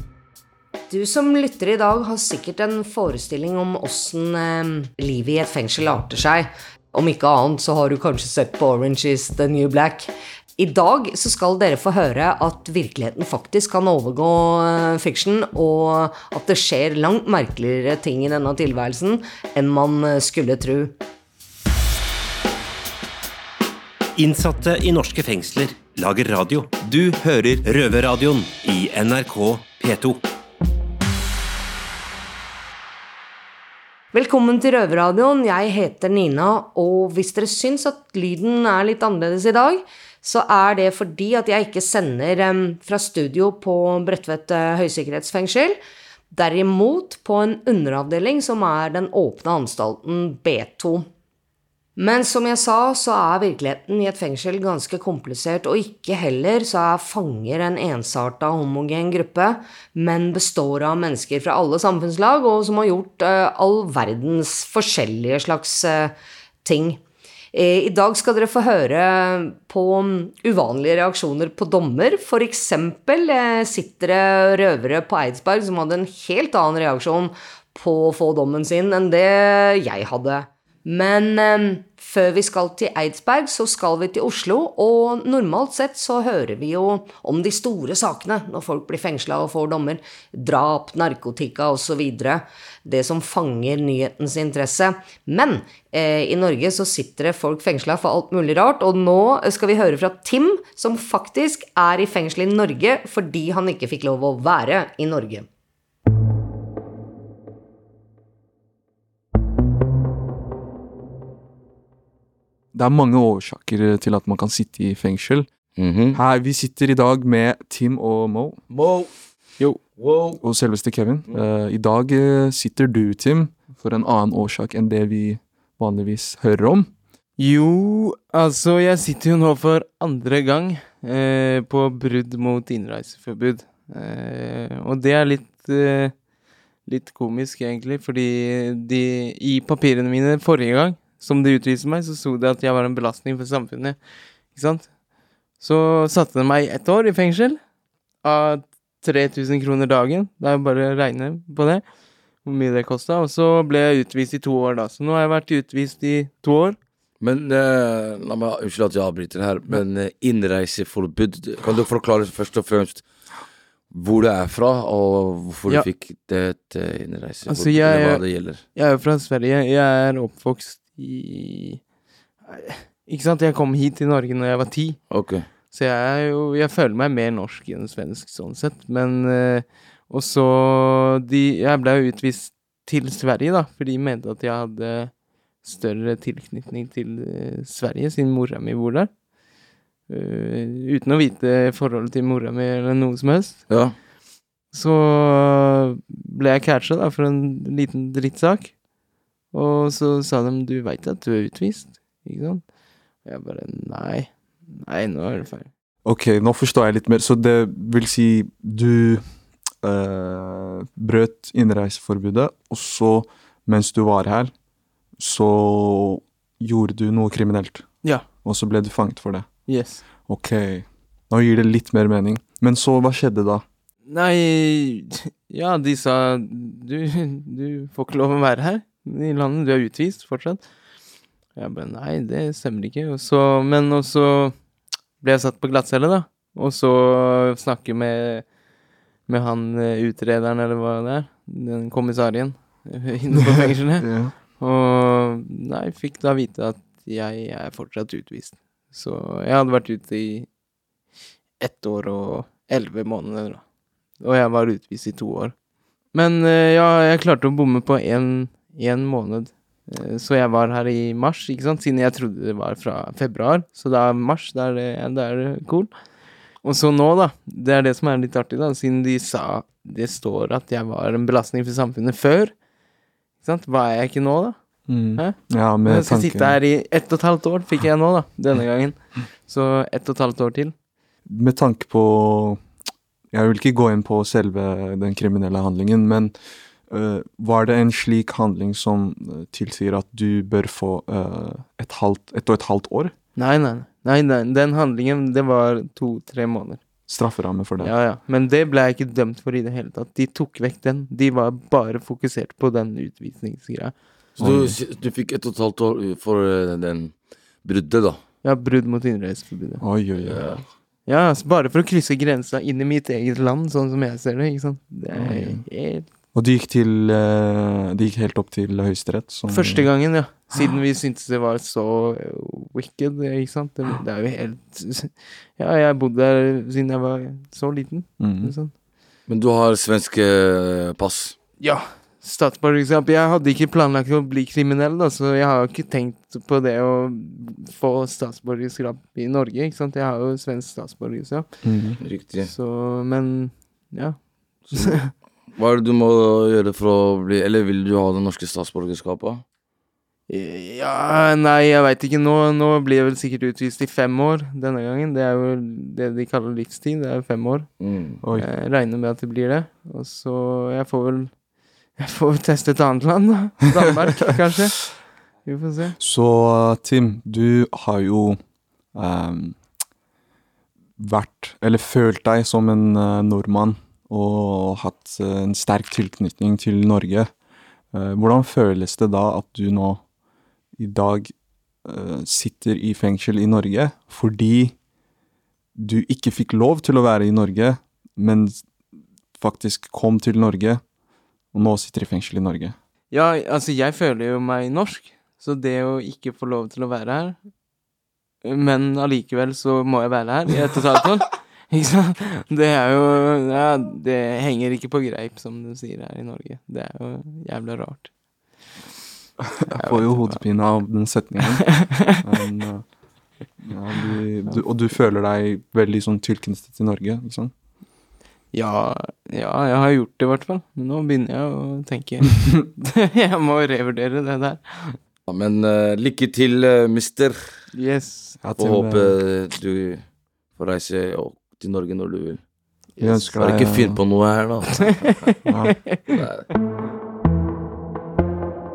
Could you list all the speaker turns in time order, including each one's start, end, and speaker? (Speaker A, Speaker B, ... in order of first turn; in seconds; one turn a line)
Speaker A: 0.9-20.9
Speaker B: 24.2-30.2
Speaker A: 34.1-45.8
Speaker A: 46.3-51.1
Speaker A: 52.0-67.0
Speaker A: 67.5-105.5
Speaker C: 112.7-115.5
Speaker D: 115.7-116.2
Speaker C: 116.1-118.6
Speaker D: 118.7-119.1
Speaker E: 119.6-119.8
Speaker D: 119.9-120.4
Speaker C: 120.4-126.9
Speaker E: 127.4-136.2
Speaker E: 136.8-145.0
Speaker E: 145.6-147.6
Speaker E: 148.2-151.9
Speaker E: 152.4-156.8
Speaker D: 157.2-163.1
Speaker D: 163.9-168.7
Speaker E: 167.5-171.9
Speaker E: 172.4-175.0
Speaker D: 175.1-175.5
Speaker E: 175.6-189.2
Speaker E: 190.1-193.6
Speaker D: 193.7-194.0
Speaker E: 194.7-198.8
Speaker E: 199.5-205.7
Speaker C: 206.0-214.5
Speaker C: 215.2-223.7
Speaker E: 218.0-218.3
Speaker E: 219.7-220.1
Speaker E: 224.1-230.7
Speaker E: 231.6-238.5
Speaker E: 239.2-250.5
Speaker C: 243.4-244.4
Speaker E: 251.6-253.6
Speaker E: 254.2-255.6
Speaker E: 256.1-266.0
Speaker E: 266.6-272.6
Speaker E: 273.4-280.7
Speaker C: 274.8-276.6
Speaker C: 281.2-282.7
Speaker C: 283.3-293.1
Speaker E: 293.4-297.1
Speaker C: 297.1-298.0
Speaker E: 297.8-304.4
Speaker D: 304.4-308.2
Speaker C: 304.4-304.8
Speaker E: 308.4-309.8
Speaker C: 309.8-310.6
Speaker D: 310.2-310.6
Speaker E: 311.1-316.2
Speaker C: 315.2-315.6
Speaker C: 316.3-320.6
Speaker E: 319.5-328.7
Speaker C: 328.2-328.6
Speaker D: 329.3-331.4
Speaker E: 331.6-341.8
Speaker C: 341.6-342.0
Speaker D: 342.0-342.5
Speaker E: 342.4-345.1
Speaker D: 344.7-345.0
Speaker D: 345.6-349.4
Speaker E: 350.3-357.7
Speaker D: 357.8-358.2
Speaker C: 358.2-358.5
Speaker E: 358.3-361.4
Speaker E: 361.9-366.0
Speaker C: 366.0-368.4
Speaker C: 368.9-369.7
Speaker C: 371.0-377.4
Speaker C: 377.9-380.1
Speaker C: 380.8-384.8
Speaker C: 385.8-388.7
Speaker C: 389.3-390.9
Speaker C: 391.5-392.8
Speaker E: 393.1-397.5
Speaker E: 398.4-408.6
Speaker C: 409.4-412.9
Speaker E: 409.8-410.4
Speaker E: 411.5-412.2
Speaker C: 413.6-417.5
Speaker E: 418.5-425.0
Speaker D: 425.3-427.6
Speaker E: 427.7-428.4
Speaker C: 428.4-429.2
Speaker D: 428.6-432.4
Speaker E: 433.0-433.4
Speaker C: 433.0-434.0
Speaker D: 433.4-435.0
Speaker E: 434.8-436.0
Speaker C: 435.5-435.8
Speaker D: 436.1-436.4